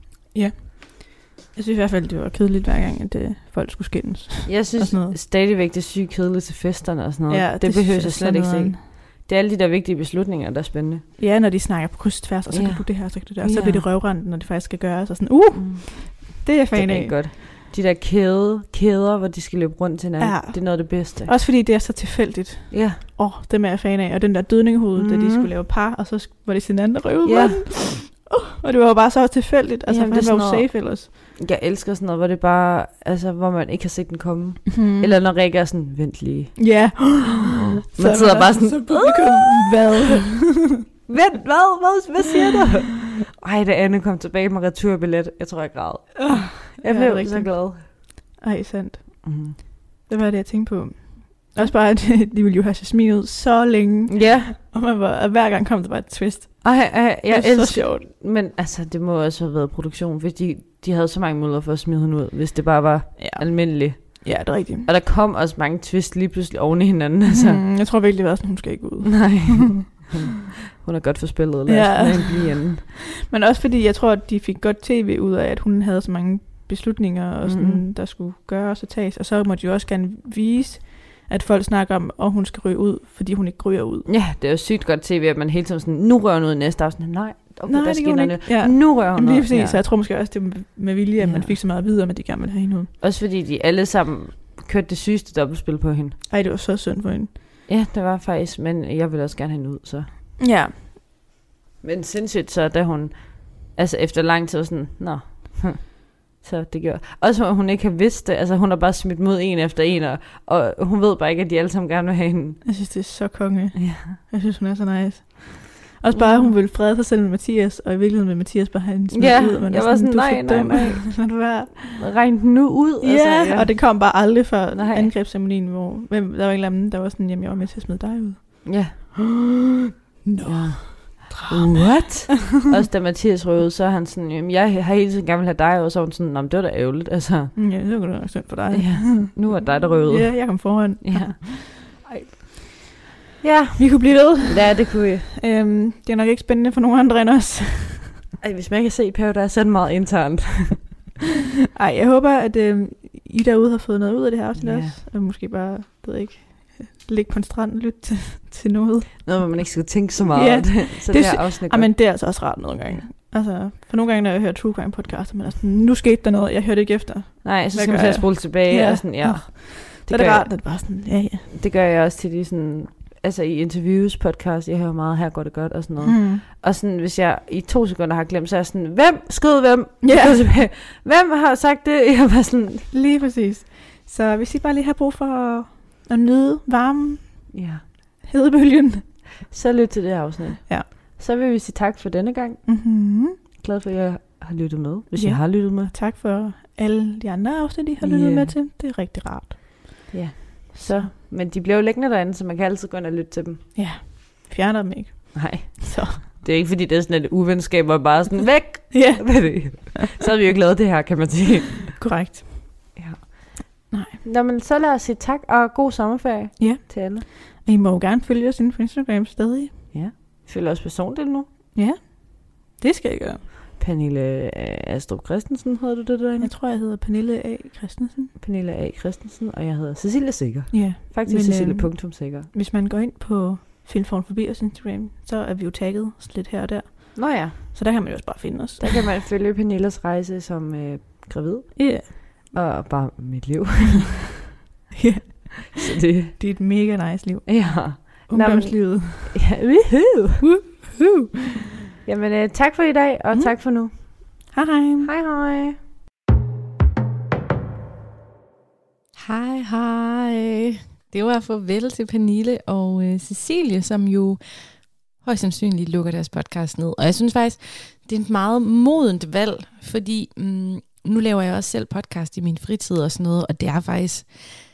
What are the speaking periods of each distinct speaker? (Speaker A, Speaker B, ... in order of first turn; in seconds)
Speaker A: 0.3-5.1, 7.3-8.8, 11.2-17.2, 20.2-31.1, 34.7-35.1, 36.6-40.6, 46.2-58.1, 63.2-64.9, 67.3-70.0, 71.7-84.1, 87.7-92.9, 96.3-97.3, 100.4-100.8, 112.6-122.1, 123.0-129.1, 130.2-132.1, 137.6-143.0, 143.8-144.8, 145.4-148.2, 151.7-159.4, 160.3-171.5, 176.0-176.4, 180.0-180.4, 182.9-187.6, 188.2-189.2, 192.7-193.4, 195.2-200.1, 200.8-201.1, 203.7-206.2, 208.9-209.9, 212.0-212.7, 213.9-214.2, 216.6-219.9, 221.7-223.4, 226.4-228.3, 230.7-238.9, 241.8-242.1, 244.9-249.4, 250.4-251.6, 254.5-255.1
Speaker B: 4.5-11.1, 12.5-13.9, 15.5-21.3, 22.7-23.0, 25.0-25.5, 27.2-27.7, 29.9-37.3, 37.9-40.2, 41.1-47.9, 49.2-49.6, 54.1-54.5, 56.6-67.6, 69.0-72.8, 77.4-77.8, 84.1-89.8, 91.2-91.5, 93.0-96.2, 97.7-100.1, 101.8-112.6, 113.8-114.2, 116.1-116.5, 119.1-121.4, 121.9-124.1, 124.7-125.1, 128.6-129.0, 130.4-137.6, 138.7-141.4, 143.4-145.3, 148.4-150.9, 154.6-154.9, 159.2-161.9, 167.4-170.6, 171.5-182.9, 187.5-187.8, 189.5-192.7, 193.6-195.9, 198.0-198.5, 200.1-203.6, 205.3-212.0, 212.9-217.2, 219.9-221.5, 223.8-226.5, 228.4-232.5, 237.1-237.6, 238.8-244.2, 245.8-246.4, 247.4-250.4, 252.1-254.4, 255.0-255.8
Speaker C: 259.2-264.4, 265.2-274.3